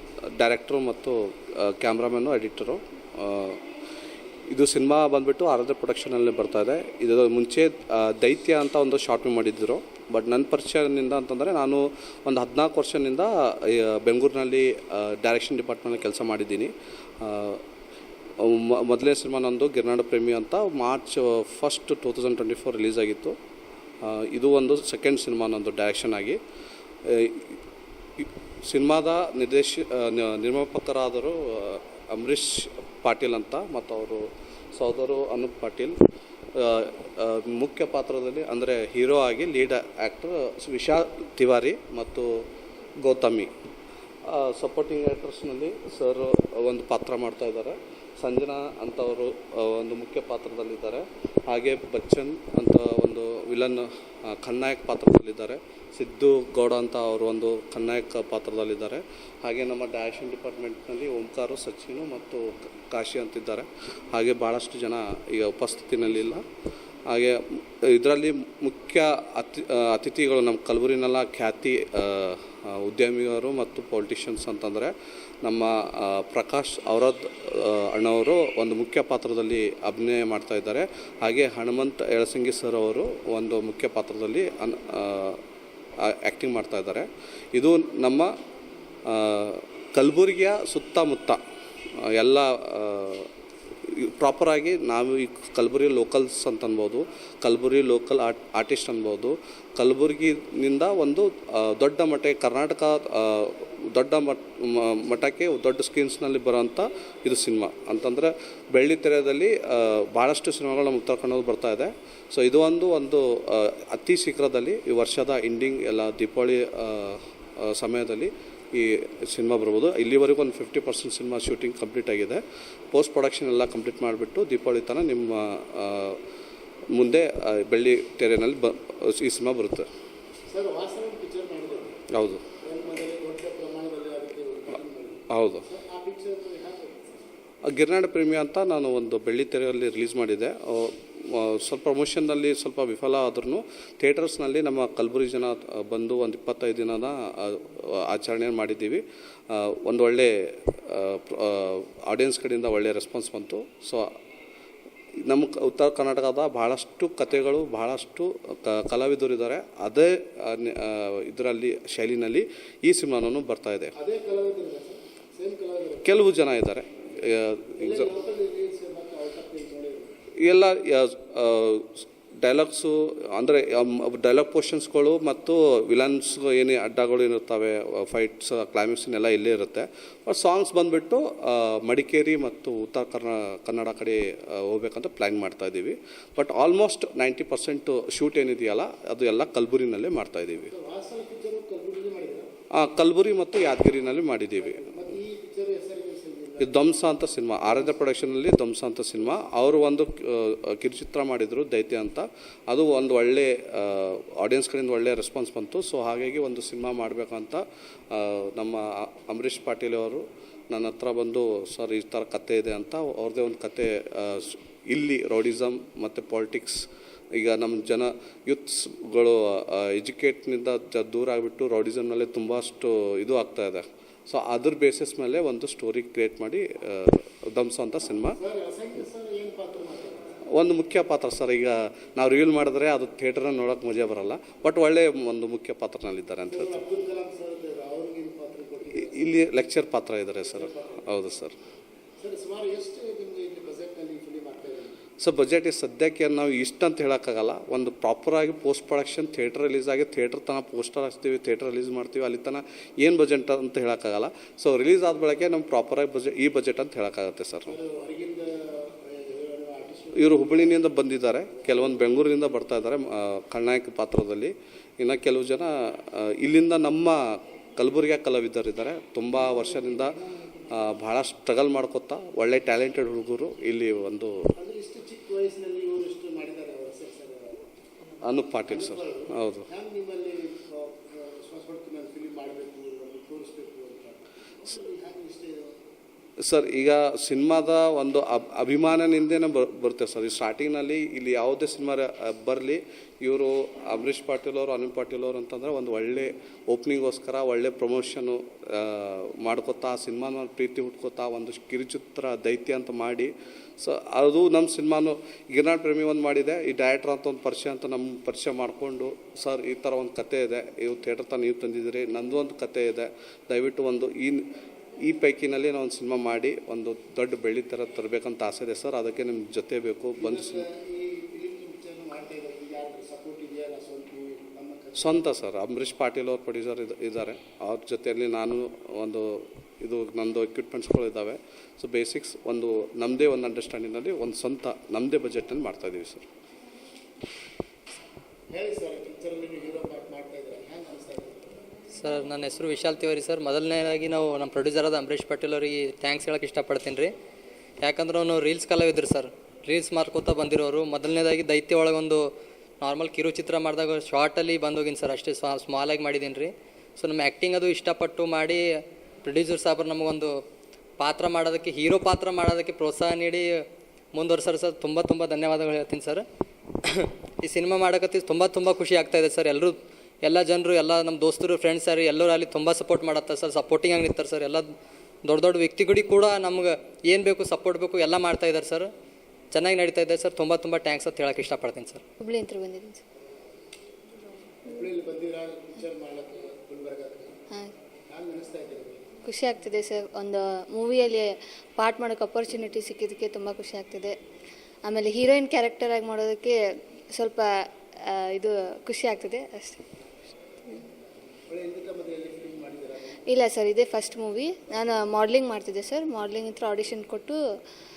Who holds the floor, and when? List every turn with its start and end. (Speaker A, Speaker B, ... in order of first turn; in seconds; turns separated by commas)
Speaker A: 0.3-3.6, Speaker A: 4.5-16.7, Speaker A: 17.2-17.6, Speaker A: 18.4-23.3, Speaker A: 24.0-26.4, Speaker A: 27.1-27.5, Speaker A: 28.2-34.2, Speaker A: 34.8-36.0, Speaker A: 36.6-42.3, Speaker A: 43.0-43.5, Speaker A: 44.3-66.4, Speaker A: 67.1-74.9, Speaker A: 75.4-85.4, Speaker A: 86.1-88.3, Speaker A: 89.1-91.4, Speaker A: 92.1-93.3, Speaker A: 94.2-122.4, Speaker A: 122.9-126.2, Speaker A: 126.9-129.9, Speaker B: 130.5-132.0, Speaker A: 132.1-132.4, Speaker B: 132.6-137.3, Speaker A: 135.3-135.6, Speaker A: 137.7-150.3, Speaker A: 150.9-154.1, Speaker A: 155.3-163.9, Speaker B: 163.9-166.2, Speaker A: 166.0-168.1, Speaker B: 167.8-170.1, Speaker A: 170.4-190.7, Speaker B: 190.7-192.5, Speaker A: 192.7-194.8, Speaker B: 194.6-196.9, Speaker A: 196.6-216.8, Speaker A: 217.3-228.4, Speaker B: 228.4-230.3, Speaker A: 230.5-236.8, Speaker B: 236.5-239.2, Speaker A: 239.0-241.5, Speaker B: 240.5-241.0, Speaker B: 242.2-244.9, Speaker A: 245.2-257.7, Speaker B: 257.6-260.8, Speaker A: 260.1-267.2, Speaker A: 267.8-270.1, Speaker A: 270.8-274.3, Speaker B: 274.6-277.6, Speaker A: 278.2-279.6, Speaker B: 278.6-285.7, Speaker A: 286.4-314.4, Speaker A: 315.0-320.6, Speaker B: 320.2-325.2, Speaker A: 325.0-336.2, Speaker B: 338.5-341.5, Speaker C: 341.9-347.1, Speaker C: 347.8-360.4, Speaker C: 361.0-366.2, Speaker C: 366.8-378.9, Speaker C: 379.5-382.0, Speaker D: 382.2-383.0, Speaker B: 384.7-387.3, Speaker B: 388.1-389.0, Speaker D: 389.2-394.1, Speaker D: 394.8-396.6, Speaker D: 397.1-397.5, Speaker D: 398.1-399.8, Speaker B: 401.5-403.2, Speaker D: 403.3-407.4